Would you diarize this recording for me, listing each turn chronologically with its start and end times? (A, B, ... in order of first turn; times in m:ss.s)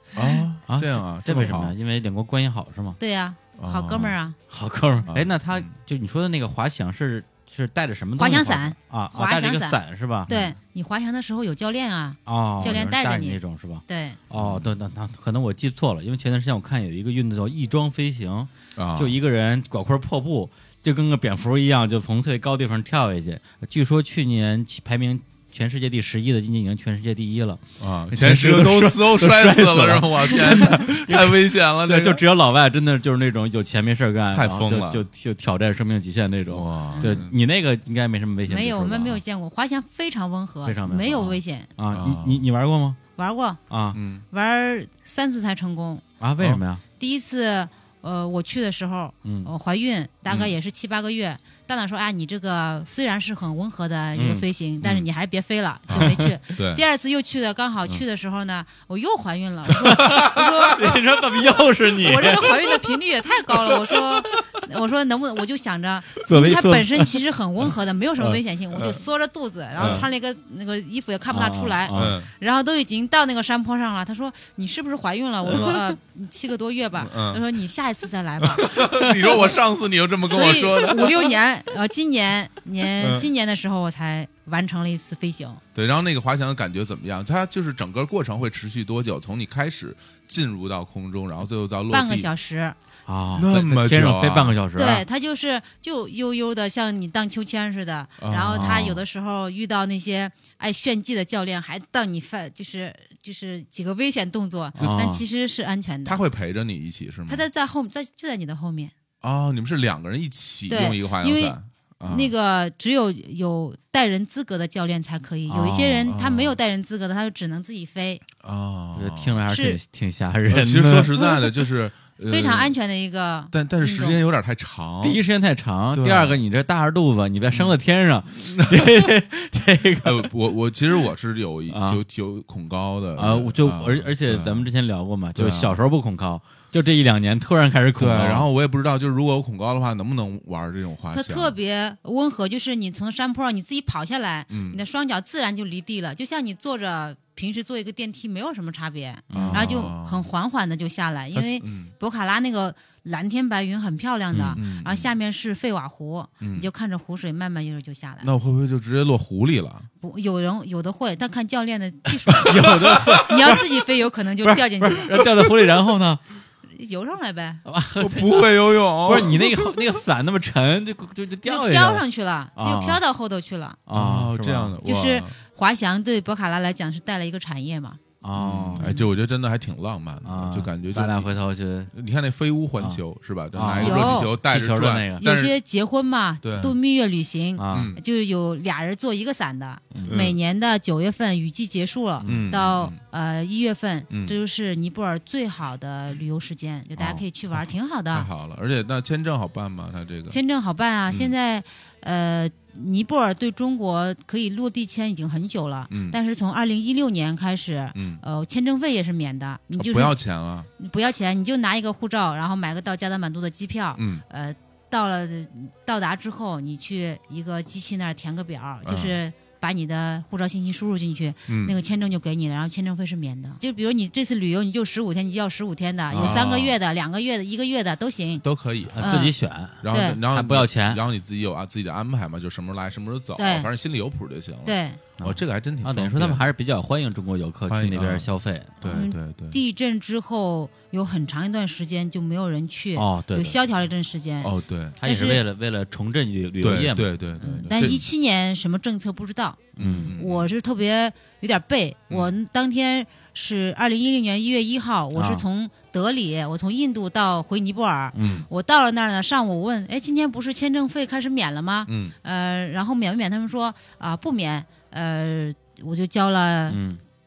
0:00.1-0:01.7 A
0:00.7-0:03.0 B
0:03.0-0:04.4 C
0:03.6-0:04.1 A
0:04.5-0:10.3 B
0:05.1-0:05.7 A
0:08.2-0:14.2 C
0:10.3-0:10.5 A
0:12.2-0:39.2 B
0:14.3-0:14.7 A
0:18.8-0:19.2 A
0:27.8-0:32.2 A
0:34.3-0:35.0 A
0:36.5-0:37.3 A
0:36.9-0:37.2 C
0:38.5-0:41.7 C
0:40.6-0:43.0 B
0:41.9-0:42.4 A
0:43.2-0:43.6 C
0:43.7-0:44.0 B
0:43.9-0:44.2 A
0:44.3-0:46.0 C
0:46.2-0:46.8 B
0:47.0-1:00.9 C
0:49.2-0:49.5 B
0:54.1-0:54.4 B
0:55.9-0:56.8 A
0:56.0-0:56.3 B
0:59.9-1:02.8 B
1:02.0-1:19.5 C
1:06.2-1:07.1 B
1:09.8-1:10.0 B
1:09.8-1:10.1 A
1:11.3-1:12.2 B
1:11.9-1:12.3 A
1:15.5-1:15.8 A
1:17.0-1:17.4 A
1:18.4-1:21.3 A
1:20.3-1:25.6 C
1:23.0-1:23.3 A
1:25.7-1:32.3 A
1:31.9-1:32.8 C
1:33.1-1:35.0 B
1:33.4-1:34.6 A
1:34.8-1:46.2 C
1:38.2-1:39.0 A
1:38.5-1:39.0 B
1:44.8-1:45.2 B
1:46.0-1:47.4 A
1:47.3-1:48.9 C
1:49.2-1:52.3 A
1:50.7-1:51.5 C
1:52.1-1:58.2 C
1:55.5-1:56.1 B
1:56.1-1:56.6 A
1:58.4-1:59.4 A
1:58.9-2:01.3 B
1:59.5-1:59.8 C
2:00.5-2:02.7 A
2:02.3-2:04.2 C
2:03.5-2:05.2 A
2:05.0-2:10.3 B
2:05.9-2:06.4 A
2:08.6-2:09.1 A
2:10.0-2:14.7 A
2:11.7-2:12.0 B
2:13.2-2:18.5 B
2:15.4-2:15.8 A
2:18.0-2:21.5 A
2:21.1-2:38.3 C
2:24.5-2:24.8 A
2:29.3-2:29.9 B
2:29.3-2:30.2 A
2:31.3-2:31.9 A
2:34.3-2:34.6 B
2:34.5-2:35.1 A
2:36.4-2:36.7 A
2:38.2-2:39.9 A
2:40.0-2:45.1 C
2:42.3-2:43.2 A
2:42.4-2:43.8 B
2:44.4-2:46.2 B
2:46.7-2:47.6 C
2:47.6-2:52.0 B
2:48.0-2:49.8 A
2:51.4-2:53.8 C
2:52.6-2:53.0 B
2:53.9-2:54.8 B
2:53.9-2:55.3 A
2:54.8-2:58.0 C
2:58.2-2:59.0 B
2:58.4-3:01.3 A
3:00.2-3:01.9 B
3:01.9-3:05.6 A
3:03.5-3:05.2 B
3:03.8-3:04.3 C
3:05.2-3:18.3 C
3:06.4-3:06.7 A
3:07.6-3:07.9 B
3:07.7-3:08.0 A
3:09.9-3:10.2 B
3:10.1-3:10.4 A
3:12.2-3:12.5 B
3:12.2-3:13.0 A
3:14.1-3:14.4 A
3:18.1-3:20.4 A
3:20.3-3:30.2 C
3:25.9-3:26.2 A
3:27.9-3:28.2 A
3:29.8-3:30.7 A
3:30.8-3:48.4 C
3:34.0-3:34.2 A
3:38.8-3:39.2 A
3:41.5-3:41.8 A
3:46.1-3:46.5 B
3:46.2-3:46.7 A
3:48.4-3:49.0 A
3:48.9-3:51.0 B
3:49.0-3:49.3 C
3:49.8-3:56.4 A
3:49.9-3:50.2 C
3:53.4-3:53.7 C
3:54.6-3:55.0 C
3:55.2-3:58.9 B
3:57.7-3:58.3 A
3:58.8-3:59.6 A
3:58.9-4:04.5 C
4:02.9-4:03.6 B
4:04.4-4:05.0 A
4:05.0-4:07.1 B
4:05.0-4:05.4 C
4:06.6-4:08.1 A
4:07.4-4:26.8 C
4:09.8-4:10.1 B
4:09.8-4:10.5 A
4:15.2-4:15.4 B
4:18.1-4:18.5 B
4:18.2-4:18.5 A
4:21.9-4:22.1 A
4:26.7-4:27.0 B